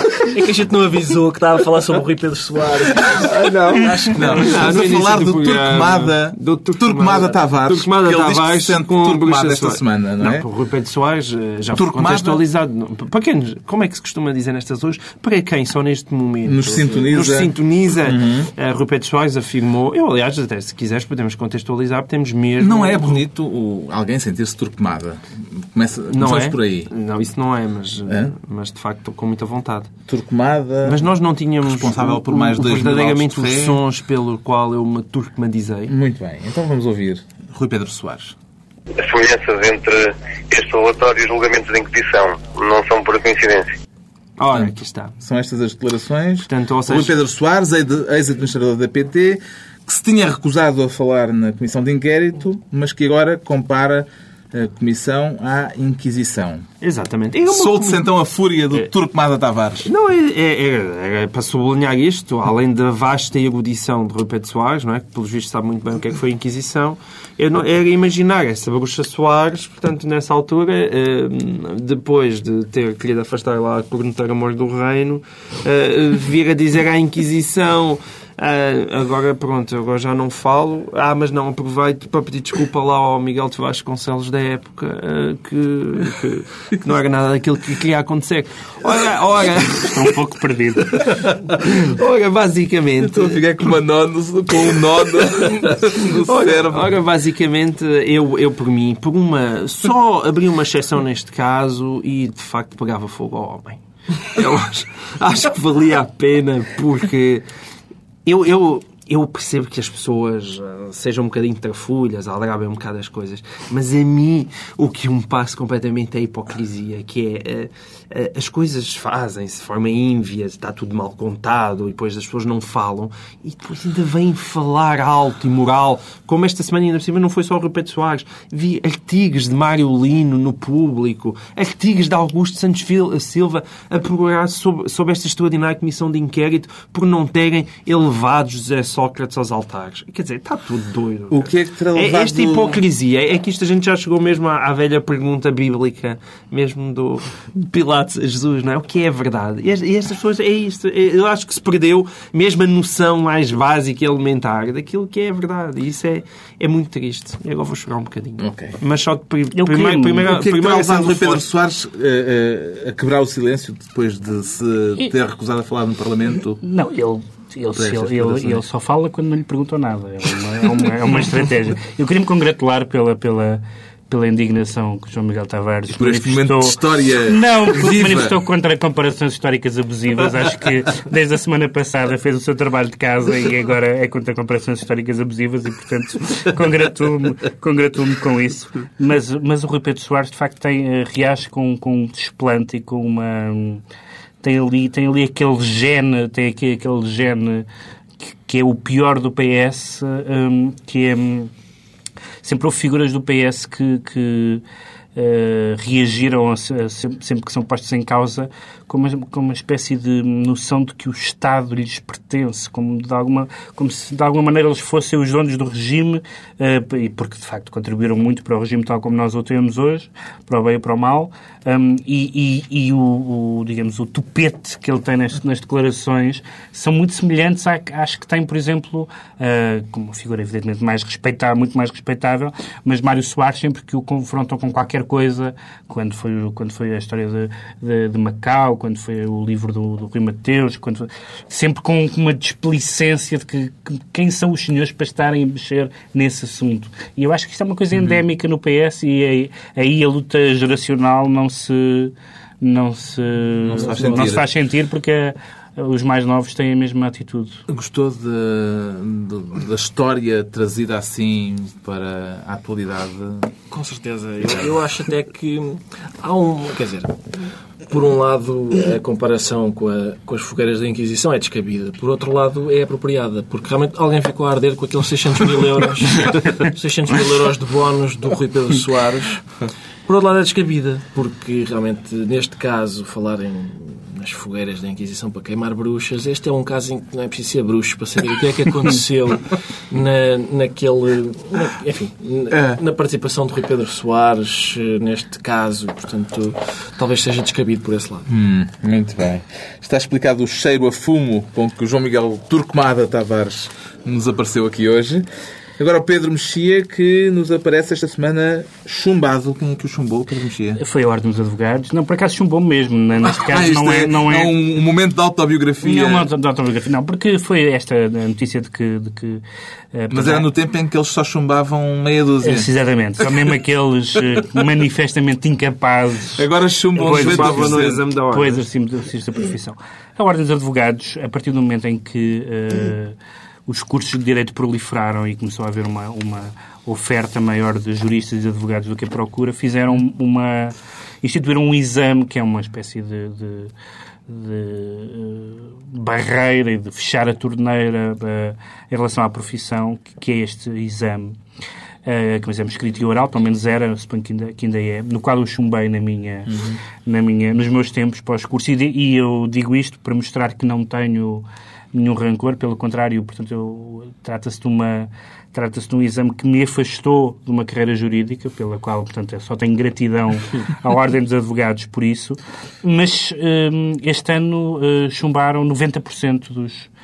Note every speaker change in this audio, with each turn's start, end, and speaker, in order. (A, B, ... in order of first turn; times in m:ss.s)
0:00.2-0:04.6 A
0:03.2-0:23.2 B
0:04.1-0:10.5 C
0:11.7-0:12.4 C
0:16.4-0:18.5 C
0:22.6-0:26.9 C
0:26.1-0:29.9 B
0:28.1-0:28.3 C
0:30.1-0:33.8 C
0:30.8-0:35.9 B
0:35.9-0:38.4 C
0:39.0-0:43.7 D
0:44.4-0:45.1 B
0:44.5-0:56.7 C
0:46.4-0:47.1 B
0:56.8-0:58.0 B
0:57.5-0:59.9 C
0:59.8-1:30.1 B
1:29.8-1:31.0 E
1:30.9-1:33.4 B
1:33.0-1:37.0 C
1:36.1-1:47.4 B
1:48.2-2:41.4 B
2:21.3-2:22.8 C
2:38.4-2:38.8 C
2:39.5-2:40.4 E
2:40.2-2:46.6 C
2:46.6-3:13.8 E
2:47.7-2:48.6 C
2:55.9-2:58.4 C
3:14.4-3:17.6 E
3:18.2-3:21.5 E
3:22.4-3:24.6 E
3:25.2-4:17.6 E
4:13.6-4:14.4 C
4:13.8-4:14.3 A
4:17.7-4:23.5 C
4:23.7-4:27.2 A
4:27.9-4:39.4 A
4:40.0-4:58.2 A
4:52.5-4:52.8 C
4:58.3-5:05.2 C
5:05.8-5:10.8 C
5:10.8-5:14.5 E
5:13.3-5:16.3 C
5:15.8-5:19.4 E
5:19.9-5:20.5 E
5:20.1-5:22.7 C
5:22.4-5:26.4 E
5:26.4-5:28.0 C
5:26.4-5:28.6 B
5:27.0-5:33.2 E
5:33.7-5:43.7 E
5:44.3-5:51.4 E
5:52.0-6:16.9 E
5:56.5-5:56.8 C